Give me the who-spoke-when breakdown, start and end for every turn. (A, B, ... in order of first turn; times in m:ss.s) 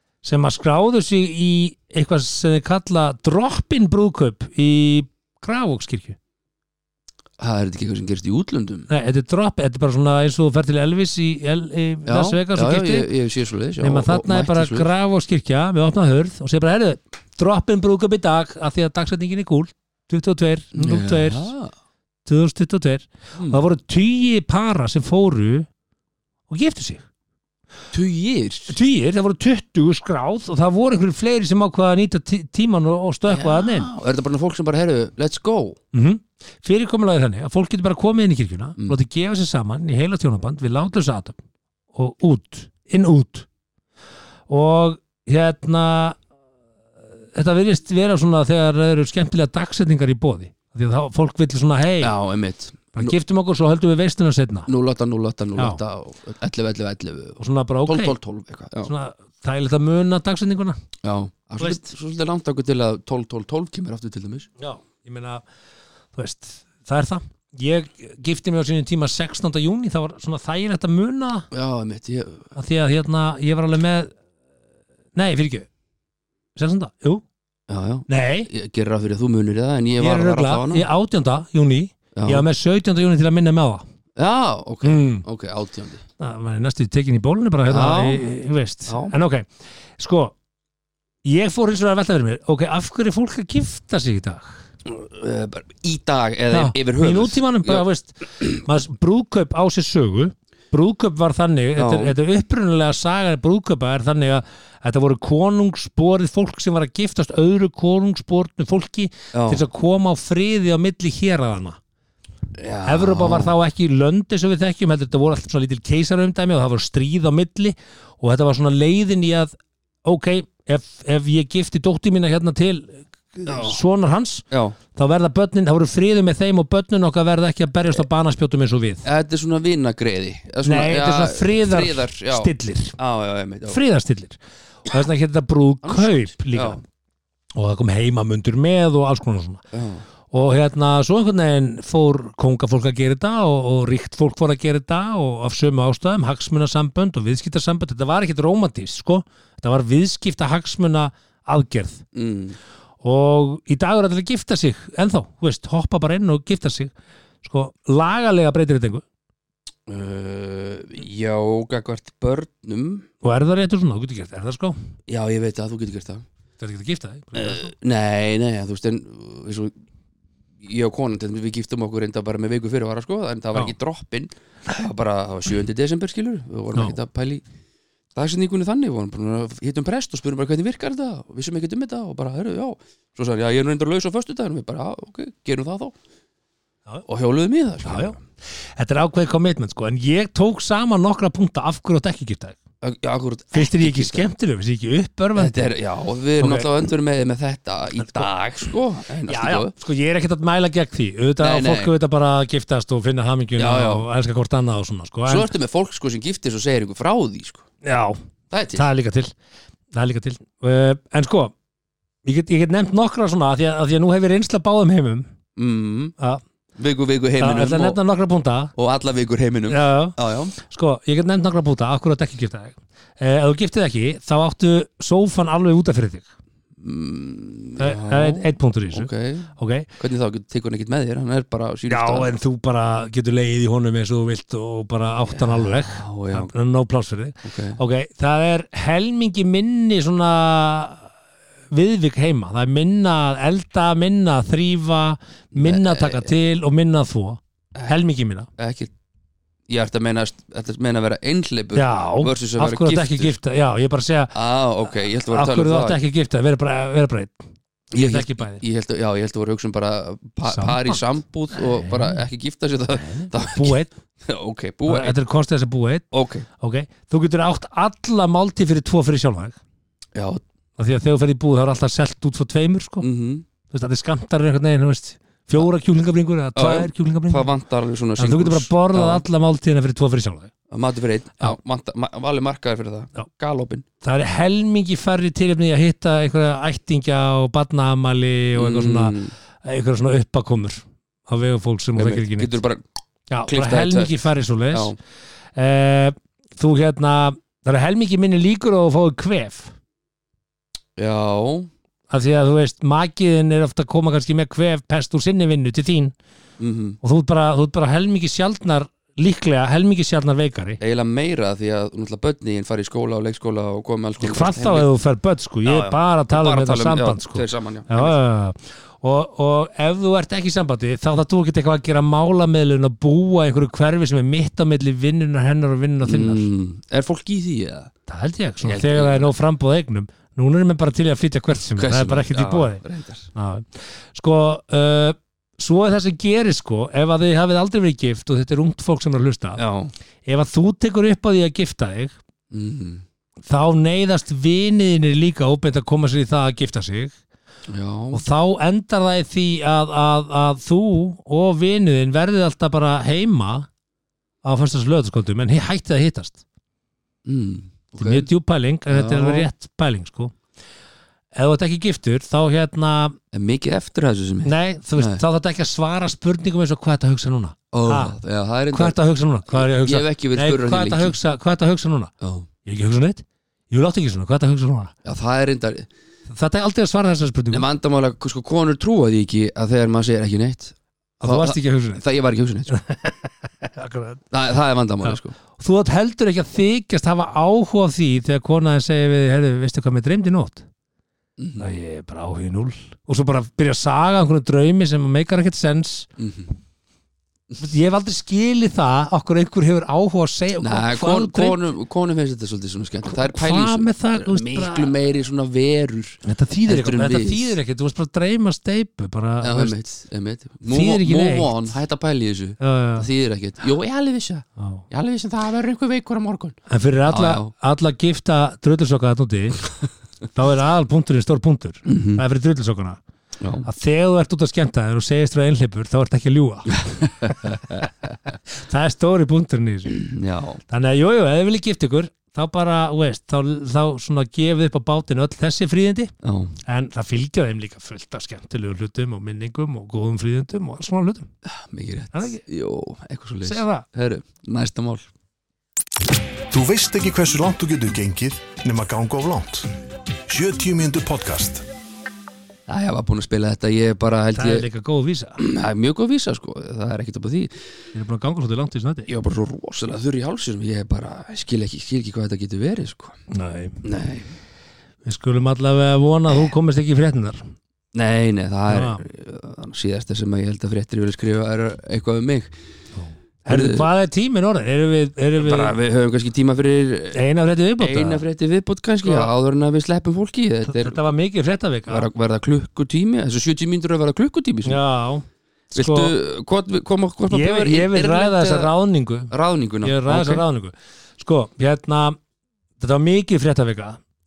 0:00.2-0:06.2 A
0:07.4-0:08.9 B
0:08.9-0:13.1 A
0:12.0-0:14.9 B
0:13.8-0:21.5 A
0:20.7-0:21.7 B
0:22.2-0:25.7 A
0:23.4-0:23.6 B
0:26.5-0:27.0 A
0:27.9-0:28.7 B
0:28.7-0:33.9 A
0:33.3-0:35.8 B
0:35.9-0:41.4 A
0:41.9-0:43.4 A
0:44.5-0:46.2 A
0:47.3-0:52.1 A
0:52.0-0:53.2 B
0:53.0-0:54.7 A
0:54.7-0:58.9 B
0:57.4-0:58.1 A
0:58.8-1:00.8 A
1:01.0-1:04.5 B
1:01.6-1:01.9 A
1:04.6-1:05.4 A
1:06.1-1:11.5 A
1:11.5-1:12.5 B
1:12.6-1:14.1 A
1:15.1-1:15.7 A
1:16.6-1:17.2 A
1:17.7-1:20.8 B
1:18.1-1:18.5 A
1:20.0-1:23.8 A
1:22.1-1:22.4 B
1:24.2-1:26.0 B
1:24.8-1:25.2 A
1:26.2-1:29.5 A
1:27.7-1:28.2 B
1:28.9-1:29.1 B
1:30.0-1:30.3 A
1:31.2-1:34.6 A
1:34.8-1:37.8 B
1:36.5-1:51.8 A
1:41.8-1:42.1 B
1:49.3-1:49.6 B
1:52.6-1:53.5 B
1:52.8-2:09.0 A
2:03.4-2:03.8 B
2:04.5-2:04.8 B
2:09.0-2:13.8 B
2:10.6-2:13.0 A
2:13.7-2:16.8 A
2:15.8-2:16.8 B
2:17.6-2:19.6 A
2:19.7-2:20.0 B
2:20.3-2:32.0 A
2:32.1-2:32.6 B
2:33.0-2:36.9 A
2:37.4-2:39.0 A
2:39.9-2:43.1 B
2:43.2-2:44.8 A
2:45.1-2:46.2 B
2:46.6-2:47.7 A
2:47.3-2:49.7 B
2:50.6-2:57.4 B
2:58.1-3:05.9 B
3:07.1-3:08.2 B
3:07.8-3:08.2 A
3:08.8-3:12.6 A
3:12.8-3:14.3 B
3:13.5-3:15.7 A
3:15.4-3:19.7 B
3:16.4-3:16.7 A
3:18.0-3:18.3 A
3:19.3-3:25.5 A
3:21.4-3:21.9 B
3:23.6-3:24.1 B
3:25.3-3:27.7 B
3:27.8-3:28.2 A
3:28.5-3:28.9 B
3:28.7-3:29.3 A
3:29.9-3:31.5 A
3:32.2-3:35.3 A
3:35.6-3:36.2 B
3:36.8-3:38.0 B
3:37.4-3:38.7 A
3:38.8-3:40.6 B
3:39.7-3:46.3 A
3:46.8-3:52.3 B
3:47.8-3:49.9 A
3:51.9-4:01.1 A
3:55.3-3:56.5 B
3:57.4-3:57.8 B
4:01.7-4:08.5 A
4:05.5-4:06.3 B
4:08.6-4:08.9 B
4:09.7-4:13.3 B
4:11.7-4:14.3 A
4:14.3-4:16.0 B
4:15.3-4:17.4 A
4:17.9-4:25.2 B
4:17.9-4:18.6 A
4:20.4-4:22.2 A
4:22.9-4:23.9 A
4:24.9-4:26.0 A
4:26.1-4:26.4 B
4:26.6-4:29.6 A
4:30.1-4:30.4 B
4:30.8-4:33.0 A
4:33.0-4:33.4 B
4:33.7-4:37.5 A
4:36.5-4:39.2 B
4:38.2-4:40.5 A
4:40.7-4:43.8 B
4:44.0-4:52.5 A
4:48.6-4:49.3 B
4:52.0-4:52.8 B
4:53.3-4:54.9 A
4:53.5-4:54.2 B
4:54.7-4:55.0 B
4:55.6-4:59.7 A
5:01.0-5:01.7 B
5:02.1-5:06.1 A
5:06.6-5:07.0 B
5:07.0-5:10.8 A
5:10.8-5:14.9 B
5:14.2-5:26.5 A
5:15.6-5:18.2 B
5:26.0-5:27.9 B
5:28.1-5:32.8 A
5:28.6-5:29.3 B
5:31.7-5:33.3 B
5:33.3-5:39.6 A
5:39.6-5:39.9 B
5:40.2-5:42.1 A
5:42.5-5:43.0 B
5:43.4-5:47.1 A
5:47.7-5:48.2 B
5:48.1-5:53.7 A
5:54.4-5:56.4 A
5:57.2-5:58.3 B
5:58.0-6:00.3 A
5:58.9-5:59.5 B
6:01.3-6:03.2 A
6:03.3-6:05.2 B
6:04.4-6:08.2 A
6:07.7-6:11.2 B
6:08.7-6:12.1 A
6:12.2-6:12.5 B
6:12.6-6:14.9 A
6:15.0-6:15.9 B
6:16.3-6:17.7 A
6:17.5-6:22.8 B
6:21.2-6:22.0 A
6:22.7-6:24.2 A
6:24.3-6:25.3 B
6:25.0-6:30.6 A
6:31.4-6:31.7 B
6:31.6-6:36.1 A
6:36.2-6:36.5 B
6:37.6-6:41.6 A
6:40.6-6:47.6 B
6:43.1-6:44.9 A
6:46.2-6:49.7 A
6:49.4-6:57.5 B
6:50.7-6:51.6 A
6:52.6-6:53.1 A
6:54.6-6:54.8 A
6:56.7-6:59.7 A
7:00.3-7:03.0 A
7:01.8-7:02.2 B
7:03.4-7:03.7 B
7:03.6-7:07.9 A
7:06.7-7:07.8 B
7:08.6-7:10.0 A
7:10.0-7:10.6 B
7:10.7-7:16.1 A
7:16.2-7:16.5 B
7:16.7-7:21.3 A
7:21.4-7:25.0 B
7:22.1-7:22.4 A
7:23.4-7:23.8 A
7:26.5-7:29.7 C
7:30.3-7:31.6 C
7:32.7-7:34.6 B
7:34.3-7:35.4 A
7:35.4-7:37.5 B
7:37.9-7:39.1 A
7:39.1-7:43.2 B
7:43.3-7:43.8 A
7:43.8-7:44.3 B
7:45.0-7:47.4 A
7:47.9-7:52.5 B
7:48.7-7:49.0 A
7:53.0-7:55.7 A
7:53.5-7:53.9 B
7:55.4-7:57.2 B
7:57.1-7:58.2 A
7:57.8-8:01.0 B
7:59.0-7:59.3 A
8:00.6-8:02.1 A
8:01.9-8:04.8 B
8:04.6-8:06.1 A
8:05.7-8:08.7 B
8:07.3-8:09.3 A
8:09.3-8:10.4 B
8:09.8-8:12.2 A
8:12.8-8:14.0 A